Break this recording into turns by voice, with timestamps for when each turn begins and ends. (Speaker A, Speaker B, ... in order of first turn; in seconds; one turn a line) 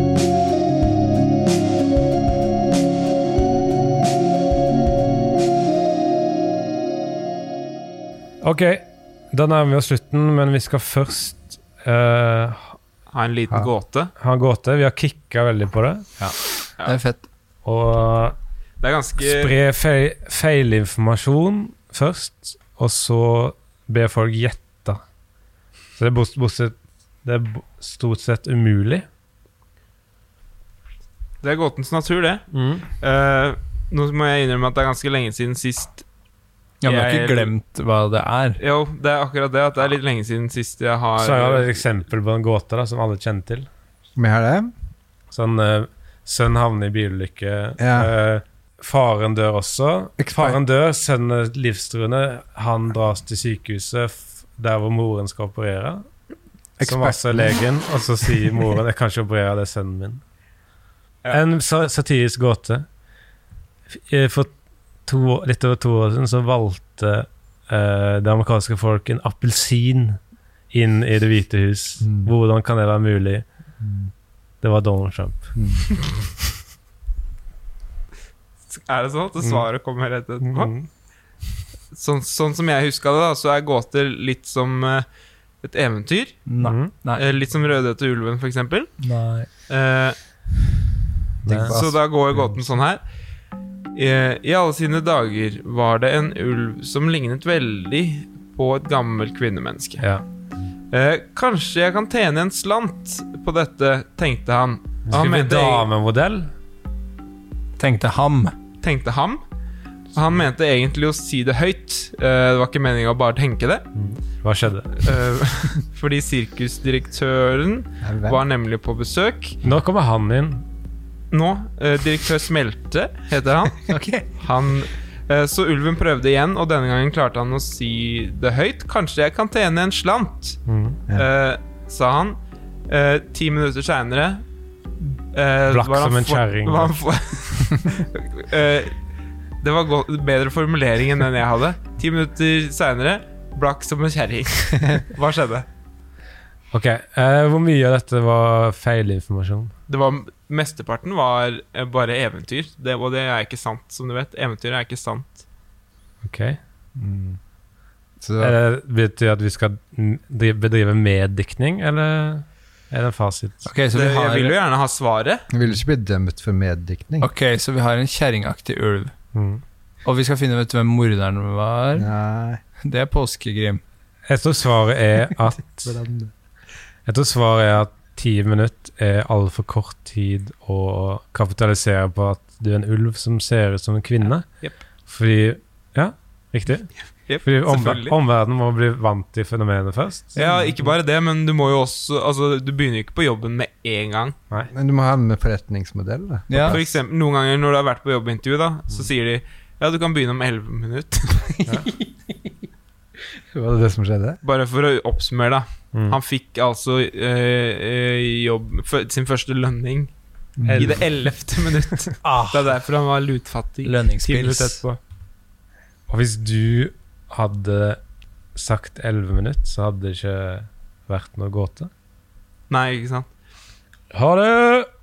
Speaker A: 8.4-12.8
Speaker B: 13.1-14.1
Speaker A: 14.2-16.1
Speaker C: 16.2-17.2
Speaker A: 17.6-18.4
Speaker B: 18.8-19.5
Speaker A: 19.2-25.0
Speaker A: 25.9-29.1
Speaker B: 31.4-36.0
Speaker A: 32.5-32.8
Speaker C: 36.8-38.6
Speaker B: 36.8-37.5
Speaker B: 38.6-41.8
Speaker A: 41.2-43.7
Speaker D: 44.1-44.7
Speaker A: 45.3-56.1
Speaker D: 47.8-48.1
Speaker D: 50.2-50.6
Speaker D: 56.8-57.6
Speaker A: 56.8-60.2
Speaker A: 61.3-62.9
Speaker A: 63.9-64.5
Speaker A: 65.0-70.2
Speaker A: 70.7-73.4
Speaker D: 72.0-72.3
Speaker D: 73.8-74.1
Speaker A: 74.6-75.5
Speaker D: 75.5-75.8
Speaker B: 78.7-80.8
Speaker A: 80.4-80.9
Speaker B: 81.9-85.0
Speaker B: 85.6-86.5
Speaker C: 86.5-87.2
Speaker A: 86.6-86.9
Speaker B: 87.1-89.0
Speaker C: 89.0-89.5
Speaker B: 89.7-90.2
Speaker A: 91.5-91.8
Speaker D: 91.5-92.7
Speaker B: 91.5-93.0
Speaker B: 93.9-100.0
Speaker B: 100.9-105.9
Speaker A: 105.1-106.5
Speaker C: 107.8-108.5
Speaker B: 108.8-109.4
Speaker B: 110.1-113.9
Speaker A: 114.0-115.1
Speaker B: 115.0-119.6
Speaker D: 118.0-118.4
Speaker A: 119.6-120.6
Speaker B: 121.3-132.4
Speaker C: 123.9-124.3
Speaker A: 130.7-131.0
Speaker B: 132.9-134.4
Speaker B: 135.3-139.0
Speaker A: 135.7-137.0
Speaker B: 139.6-145.7
Speaker A: 146.7-149.7
Speaker B: 149.9-155.4
Speaker A: 156.2-156.6
Speaker D: 157.0-157.4
Speaker D: 158.2-158.6
Speaker A: 158.4-163.6
Speaker C: 163.6-164.5
Speaker B: 163.9-165.5
Speaker D: 165.5-167.3
Speaker C: 167.2-169.1
Speaker A: 169.3-169.6
Speaker C: 170.0-172.1
Speaker D: 172.0-172.6
Speaker C: 172.8-173.8
Speaker A: 174.3-175.9
Speaker D: 175.8-176.3
Speaker A: 177.1-190.3
Speaker B: 187.3-188.2
Speaker B: 190.3-194.3
Speaker D: 194.7-196.8
Speaker C: 196.5-196.8
Speaker B: 196.6-201.6
Speaker D: 203.5-204.4
Speaker B: 204.4-210.1
Speaker D: 210.6-211.0
Speaker A: 210.7-211.0
Speaker B: 210.7-215.0
Speaker C: 213.8-214.8
Speaker A: 216.1-218.0
Speaker A: 218.6-221.9
Speaker B: 222.7-223.3
Speaker A: 224.1-224.9